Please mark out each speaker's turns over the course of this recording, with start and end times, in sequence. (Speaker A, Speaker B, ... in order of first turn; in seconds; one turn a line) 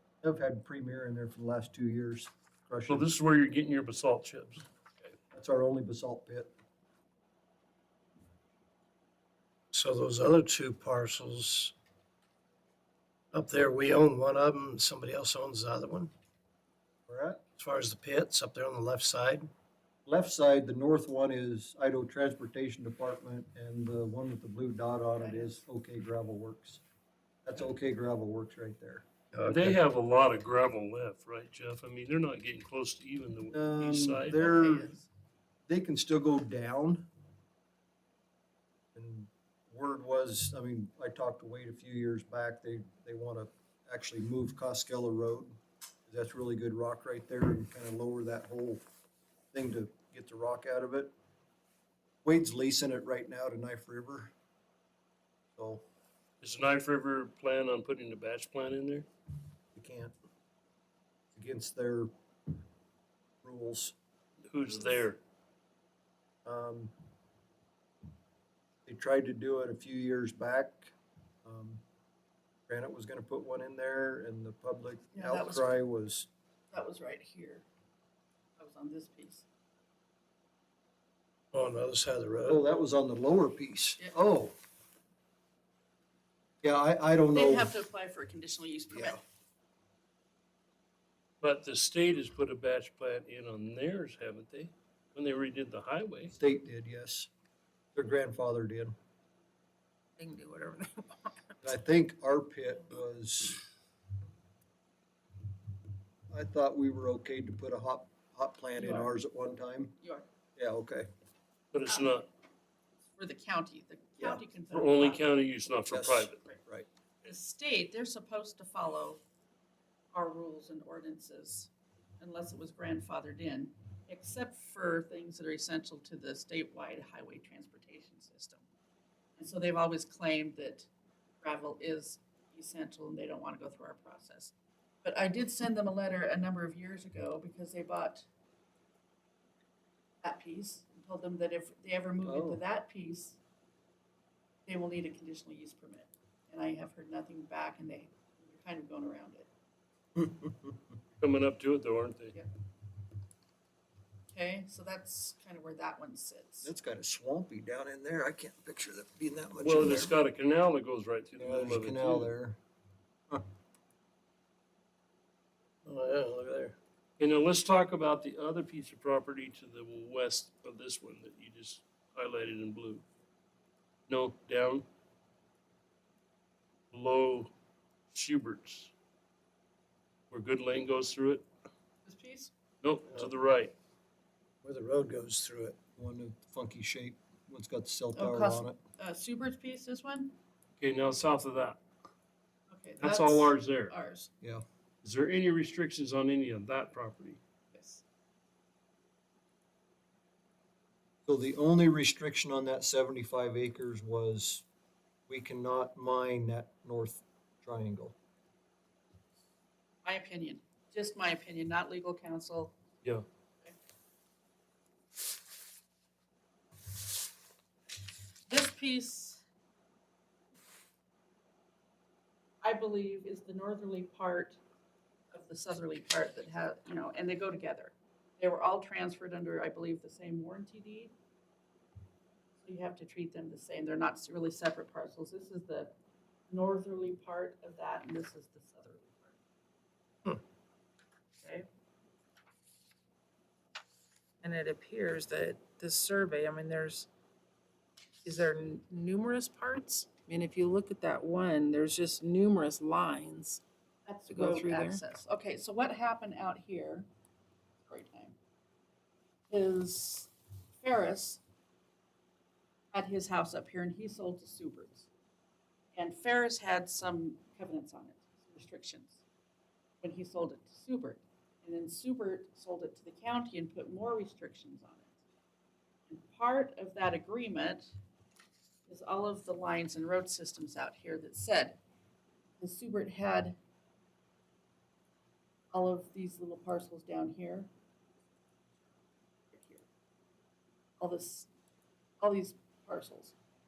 Speaker A: 0.2-3.1
Speaker B: 2.9-5.1
Speaker A: 5.3-6.5
Speaker C: 9.7-11.7
Speaker C: 13.3-16.1
Speaker A: 17.1-17.4
Speaker C: 17.6-19.5
Speaker A: 20.1-26.8
Speaker D: 25.2-25.6
Speaker A: 27.4-29.1
Speaker C: 29.3-29.8
Speaker B: 29.5-34.4
Speaker A: 33.5-35.0
Speaker D: 34.3-35.1
Speaker A: 35.7-37.1
Speaker A: 39.0-45.5
Speaker A: 46.1-48.8
Speaker A: 49.5-51.1
Speaker A: 52.2-54.3
Speaker A: 55.6-55.8
Speaker B: 56.4-59.1
Speaker A: 59.8-60.1
Speaker A: 61.3-62.1
Speaker A: 63.4-64.0
Speaker B: 64.5-65.2
Speaker A: 66.5-66.9
Speaker A: 68.9-70.9
Speaker A: 71.5-71.8
Speaker A: 72.7-76.3
Speaker D: 75.1-75.7
Speaker D: 76.7-77.7
Speaker D: 78.6-79.5
Speaker C: 81.5-82.6
Speaker A: 82.5-84.5
Speaker A: 86.6-87.7
Speaker D: 87.3-89.2
Speaker A: 88.9-89.2
Speaker B: 91.4-96.3
Speaker A: 96.4-97.3
Speaker A: 98.0-98.9
Speaker E: 100.2-101.5
Speaker A: 101.6-103.6
Speaker A: 106.3-110.0
Speaker D: 108.8-109.1
Speaker D: 110.0-110.3
Speaker A: 110.6-111.1
Speaker B: 111.7-112.3
Speaker D: 113.2-115.4
Speaker B: 114.7-116.4
Speaker A: 115.9-116.9
Speaker D: 117.2-119.2
Speaker D: 120.1-128.6
Speaker D: 129.4-130.9
Speaker D: 131.4-134.5
Speaker D: 135.0-138.3
Speaker D: 140.2-143.4
Speaker A: 142.2-142.6
Speaker D: 144.7-149.5
Speaker A: 150.2-150.8
Speaker B: 151.2-152.4
Speaker D: 154.3-156.7
Speaker A: 156.6-160.2
Speaker B: 159.6-162.3
Speaker A: 161.4-162.6
Speaker C: 165.9-166.8
Speaker B: 167.2-173.0
Speaker B: 174.1-174.8
Speaker B: 176.9-177.5
Speaker B: 178.1-178.9
Speaker B: 180.3-181.4
Speaker D: 182.1-182.5
Speaker B: 182.8-183.7
Speaker C: 184.6-185.8
Speaker A: 186.0-188.8
Speaker D: 188.1-190.3
Speaker B: 190.8-191.8
Speaker D: 192.7-194.3
Speaker B: 193.0-193.9
Speaker B: 195.0-197.4
Speaker D: 197.7-198.0
Speaker A: 201.3-204.6
Speaker A: 205.3-208.2
Speaker D: 210.0-212.8
Speaker D: 218.5-219.4
Speaker D: 222.6-224.6
Speaker D: 225.3-231.1
Speaker D: 232.6-235.9
Speaker D: 236.5-239.3
Speaker E: 244.4-247.1
Speaker E: 248.2-253.6
Speaker D: 254.1-257.1
Speaker E: 254.3-255.0
Speaker D: 257.9-258.4
Speaker D: 259.5-261.4
Speaker D: 262.9-265.1
Speaker D: 265.9-269.2
Speaker D: 270.0-275.1
Speaker D: 276.1-277.9
Speaker D: 278.9-281.8
Speaker D: 282.6-283.6
Speaker D: 285.7-287.7
Speaker D: 289.5-289.8
Speaker D: 291.0-291.5
Speaker D: 292.2-293.3